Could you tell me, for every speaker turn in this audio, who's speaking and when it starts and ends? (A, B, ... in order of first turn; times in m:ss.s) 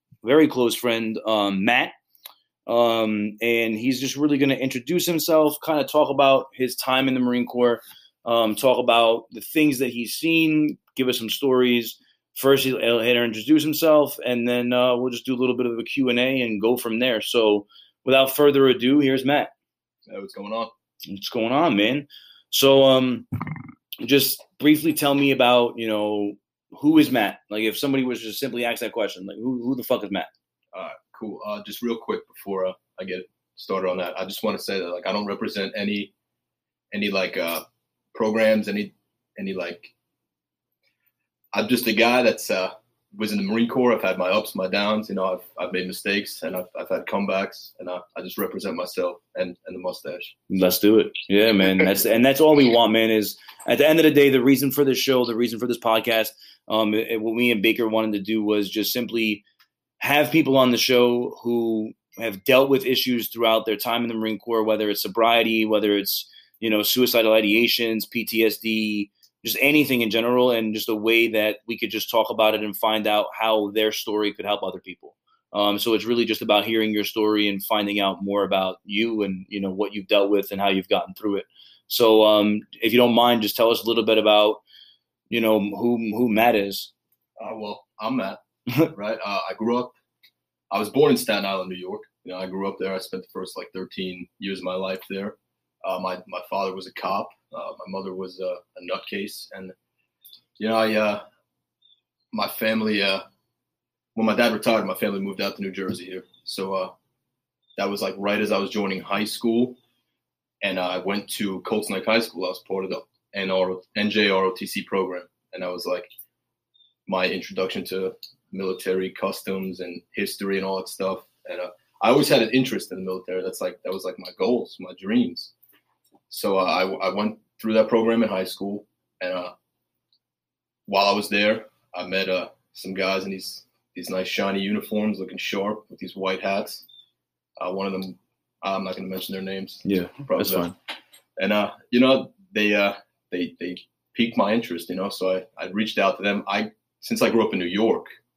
0:00.2-0:01.9 A
0:02.6-0:19.5 A
0:20.1-0:20.7 B
0:21.1-0:23.3 A
0:24.0-0:30.3 A
0:30.7-0:36.1 B
0:36.9-0:39.9 B
0:41.5-0:50.3 B
0:50.5-0:59.4 A
1:00.0-1:24.6 A
1:25.3-1:26.9 A
1:27.4-1:28.4 B
1:28.9-1:29.9 B
1:30.7-1:39.7 B
1:40.6-1:41.2 B
1:42.3-1:43.2 B
1:44.1-1:46.9 B
1:47.8-1:49.8 B
1:50.6-1:56.1 B
1:57.1-2:05.5 B
2:06.3-2:09.5 B
2:10.9-2:16.8 B
2:17.6-2:20.7 B
2:19.8-2:20.7 A
2:21.4-2:28.1 B